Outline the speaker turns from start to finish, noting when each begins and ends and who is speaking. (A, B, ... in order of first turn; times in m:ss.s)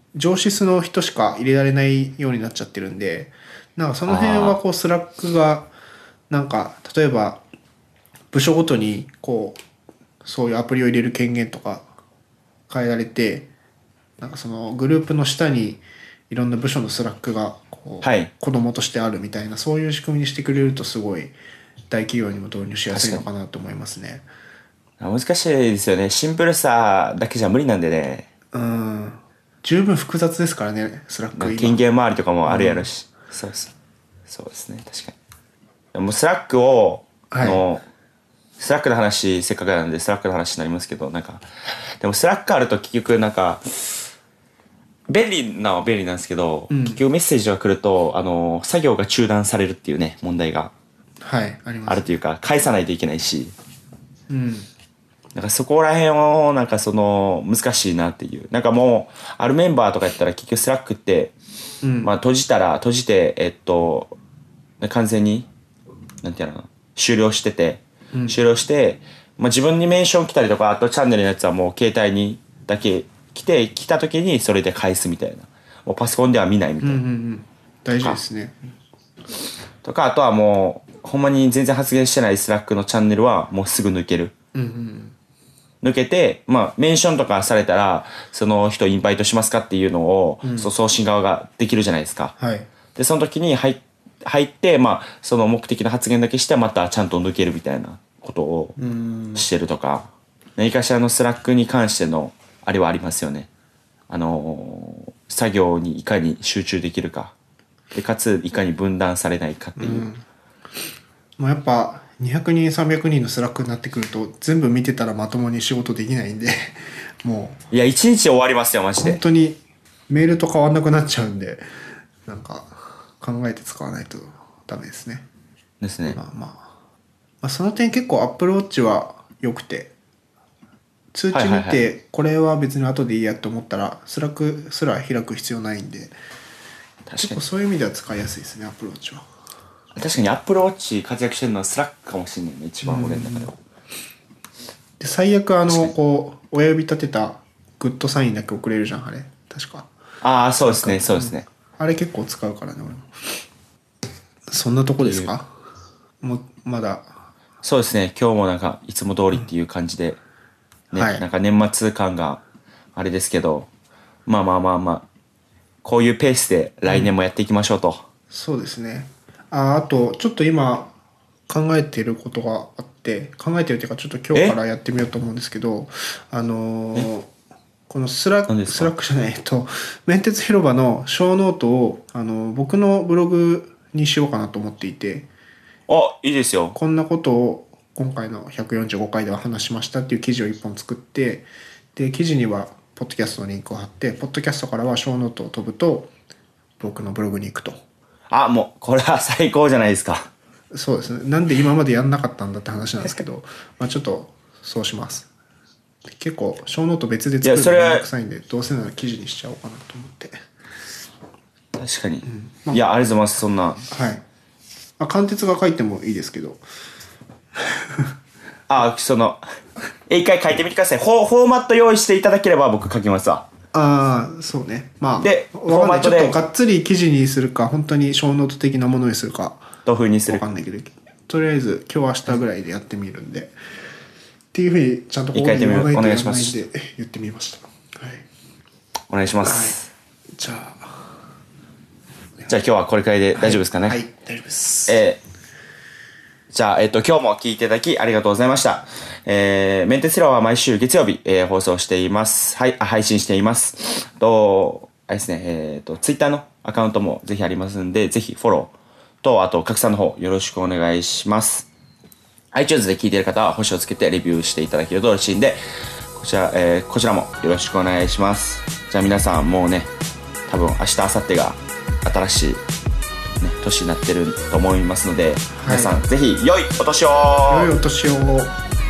0:00.1-0:05.7 A
0:04.0-0:04.6 B
0:06.3-0:07.4 A
0:08.3-0:09.6 A
0:10.2-0:11.8 A
0:12.7-0:13.5 A
0:14.2-0:21.3 A
0:18.0-0:18.3 B
0:21.9-0:24.2 A
0:22.9-0:23.2 B
0:25.0-0:28.3 B
0:28.5-0:31.8 A
0:31.3-0:33.7 B
0:32.4-0:32.9 A
0:34.3-0:35.2 B
0:35.9-0:37.8 B
0:37.3-0:37.6 A
0:38.6-0:41.4 B
0:42.0-0:44.0 B
0:45.1-0:50.7 B
0:46.7-0:47.0 A
0:51.2-0:52.1 A
0:51.9-0:53.5 B
0:54.3-0:54.7 A
0:55.3-1:01.3 B
1:01.8-1:02.1 A
1:02.0-1:04.1 B
1:04.8-1:05.5 B
1:06.2-1:17.0 B
1:08.1-1:08.4 A
1:16.8-1:18.6 A
1:19.8-1:24.3 B
1:24.5-1:25.1 A
1:25.8-1:32.3 B
1:30.4-1:30.7 A
1:32.4-1:32.7 A
1:32.9-1:38.8 B
1:38.8-1:39.5 A
1:39.3-1:43.5 B
1:44.1-1:47.3 B
1:47.9-1:50.1 B
1:49.8-1:50.2 A
1:51.4-1:57.6 A
1:57.7-1:59.2 B
1:59.0-2:01.6 A
2:02.2-2:05.3 A
2:05.8-2:06.2 B
2:06.1-2:06.7 A
2:07.4-2:09.9 A
2:11.1-2:16.1 A
2:11.3-2:11.8 B
2:17.0-2:17.4 B
2:17.2-2:19.3 A
2:19.9-2:23.5 B
2:22.8-2:23.5 A
2:25.0-2:29.9 A
2:25.7-2:25.9 B
2:30.2-2:31.4 B
2:30.7-2:33.3 A
2:34.5-2:35.5 A
2:35.0-2:35.3 B
2:36.2-2:37.1 A
2:37.6-2:40.2 B
2:40.9-2:42.4 B
2:40.9-2:41.2 A
2:42.9-2:43.7 B
2:44.2-2:45.0 B
2:45.8-2:48.0 B
2:48.3-2:50.9 A
2:51.5-2:57.3 A
2:57.9-3:05.3 A
2:58.5-2:58.9 B
3:05.9-3:06.8 B
3:06.7-3:16.1 A
3:16.8-3:17.8 A
3:18.3-3:20.3 B
3:20.7-3:25.3 A
3:26.1-3:30.4 A
3:27.4-3:28.0 B
3:31.8-3:33.8 B
3:32.2-3:32.8 A
3:33.9-3:34.2 A
3:35.0-3:36.6 A
3:38.7-3:39.4 B
3:40.1-3:43.5 B
3:43.7-3:49.7 A
3:45.2-3:46.4 B
3:49.8-3:50.4 B
3:50.3-3:53.5 A
3:54.5-3:58.2 A
3:55.3-3:56.6 B
3:59.1-3:59.9 B
3:59.4-3:59.8 A
4:00.4-4:01.1 A
4:02.5-4:04.0 B
4:03.3-4:05.0 A
4:04.9-4:05.2 B
4:06.5-4:21.7 B
4:22.5-4:25.6 B
4:26.1-4:29.9 B
4:30.5-4:32.6 B
4:33.4-4:37.7 B
4:35.5-4:36.0 A
4:37.5-4:38.5 A